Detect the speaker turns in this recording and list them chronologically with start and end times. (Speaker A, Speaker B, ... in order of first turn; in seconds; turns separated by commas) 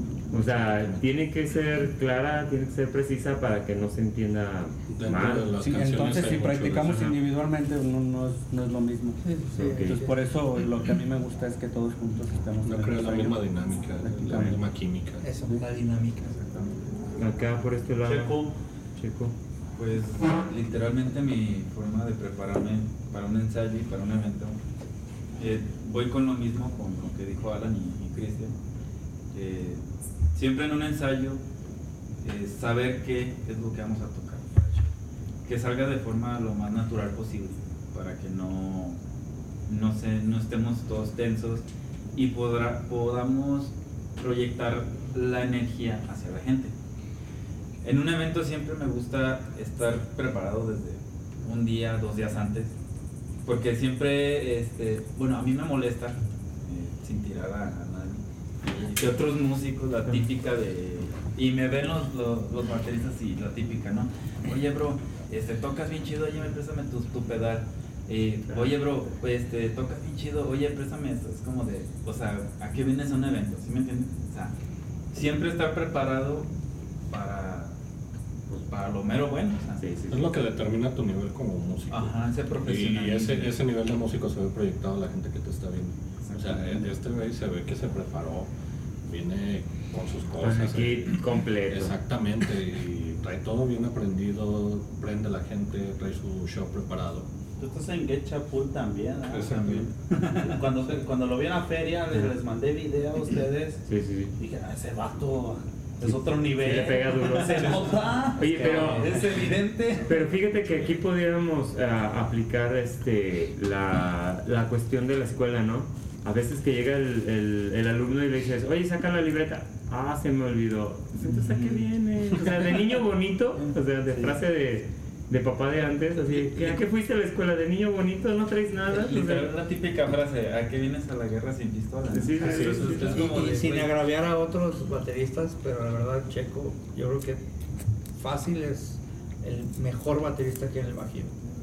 Speaker A: 0.3-5.7, Speaker B: 0.4-1.0, Speaker B: 4.9-7.0, Speaker C: 5.6-13.4, Speaker A: 6.8-7.2, Speaker D: 9.2-10.1, Speaker A: 9.5-10.0, Speaker B: 12.6-15.3, Speaker C: 14.0-14.6, Speaker A: 14.3-14.6, Speaker D: 15.2-16.7, Speaker A: 17.2-18.4, Speaker E: 18.0-18.6, Speaker A: 19.0-19.3, Speaker F: 19.8-24.6, Speaker F: 25.4-28.5, Speaker F: 29.3-29.8, Speaker F: 30.3-31.4, Speaker F: 32.2-34.9, Speaker F: 35.4-39.0, Speaker F: 39.7-46.7, Speaker F: 47.8-52.7, Speaker F: 53.5-74.5, Speaker A: 68.5-68.8, Speaker F: 75.1-76.5, Speaker F: 77.1-77.7, Speaker F: 78.5-79.8, Speaker A: 79.8-80.3, Speaker B: 80.1-88.5, Speaker F: 81.9-83.5, Speaker F: 86.2-86.8, Speaker B: 89.0-91.2, Speaker A: 90.4-91.9, Speaker B: 91.7-97.3, Speaker E: 97.6-103.8, Speaker B: 99.3-99.9, Speaker A: 103.9-104.3, Speaker E: 104.4-110.1, Speaker A: 106.5-109.3, Speaker F: 108.4-110.1, Speaker A: 110.0-129.5, Speaker F: 121.2-122.5, Speaker F: 123.6-124.4, Speaker F: 126.2-126.8, Speaker F: 128.9-133.8, Speaker A: 132.1-133.8, Speaker D: 132.6-137.4, Speaker D: 138.1-141.3